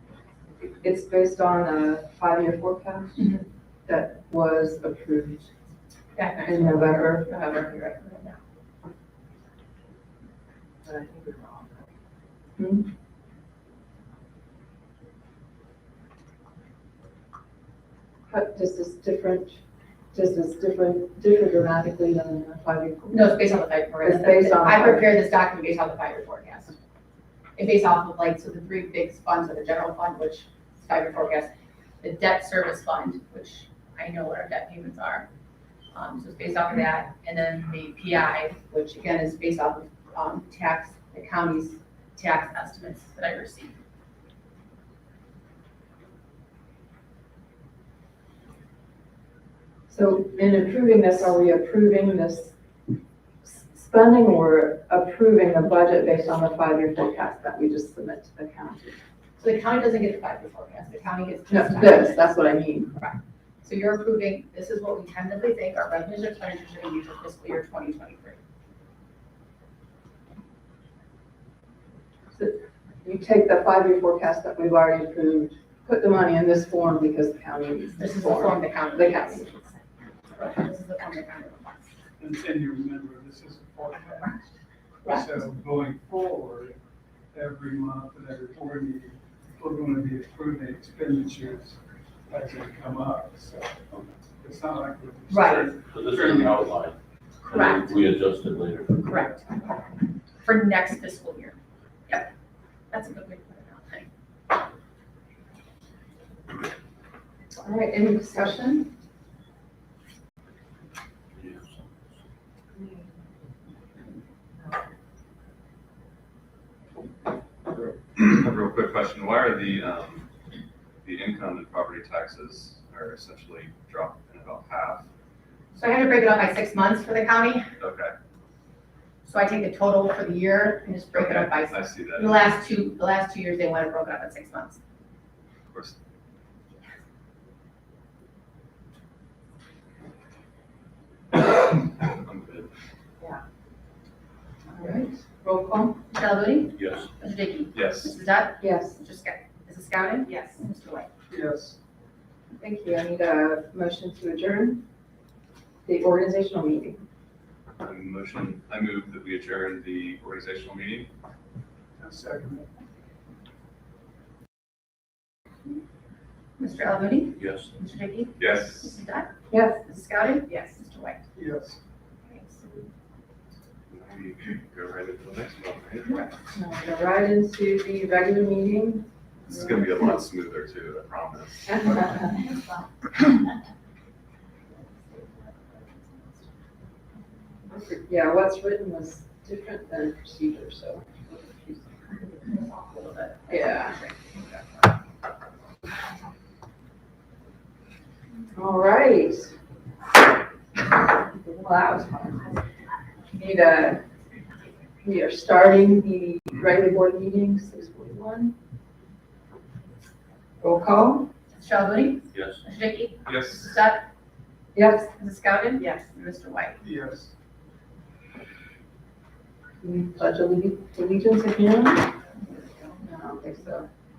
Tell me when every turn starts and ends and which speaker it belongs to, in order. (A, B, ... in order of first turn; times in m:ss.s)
0:00.6-0:03.3 A
0:03.2-0:03.4 B
0:03.9-0:05.4 A
0:06.1-0:08.4 B
0:06.4-0:07.4 A
0:10.8-0:11.8 A
0:12.6-0:12.9 A
0:18.3-0:19.6 A
0:20.1-0:25.1 A
0:23.1-0:26.8 B
0:27.6-0:31.5 B
0:32.0-0:35.3 B
0:35.9-0:43.8 B
0:49.9-0:52.5 A
0:53.4-0:59.0 A
0:59.4-1:02.4 B
1:01.5-1:02.9 A
1:02.9-1:08.4 B
1:12.3-1:19.5 A
1:17.9-1:19.8 B
1:20.3-1:21.9 B
1:22.2-1:24.5 C
1:25.0-1:25.4 B
1:25.0-1:26.8 C
1:27.3-1:33.9 C
1:34.4-1:36.7 C
1:35.3-1:35.7 B
1:35.9-1:39.1 D
1:37.5-1:38.0 B
1:39.0-1:39.9 B
1:40.4-1:41.6 B
1:42.9-1:44.1 B
1:47.6-1:48.9 A
1:51.4-1:51.9 D
1:58.2-2:00.3 E
2:01.0-2:05.0 E
2:05.7-2:07.7 B
2:07.8-2:08.1 E
2:09.2-2:14.8 B
2:11.1-2:12.5 E
2:21.3-2:22.7 E
2:24.7-2:26.0 A
2:26.1-2:31.1 B
2:26.8-2:27.1 D
2:27.7-2:28.1 E
2:28.6-2:29.0 A
2:31.3-2:31.8 C
2:32.6-2:34.8 A
2:35.8-2:37.0 A
2:37.8-2:41.1 E
2:42.0-2:42.7 C
2:46.6-2:51.2 B
2:47.4-2:47.7 D
2:48.4-2:49.0 E
2:49.5-2:49.8 A
2:51.3-2:51.8 C
2:52.2-2:52.9 B
2:53.9-2:56.1 E
2:56.0-2:56.4 B
2:56.5-2:59.0 A
2:59.4-3:01.8 E
3:01.7-3:02.4 A
3:05.0-3:06.4 B
3:08.0-3:11.9 A
3:12.3-3:14.8 B
3:13.5-3:14.0 A
3:18.5-3:19.5 A
3:21.3-3:22.5 A
3:23.3-3:24.0 A
3:25.0-3:28.5 A
3:30.6-3:31.3 A
3:31.5-3:34.1 B
3:32.3-3:32.6 D
3:33.2-3:33.6 E
3:34.7-3:35.1 A
3:35.2-3:36.8 B
3:36.8-3:37.3 C
3:39.8-3:42.1 A
3:43.0-3:43.9 A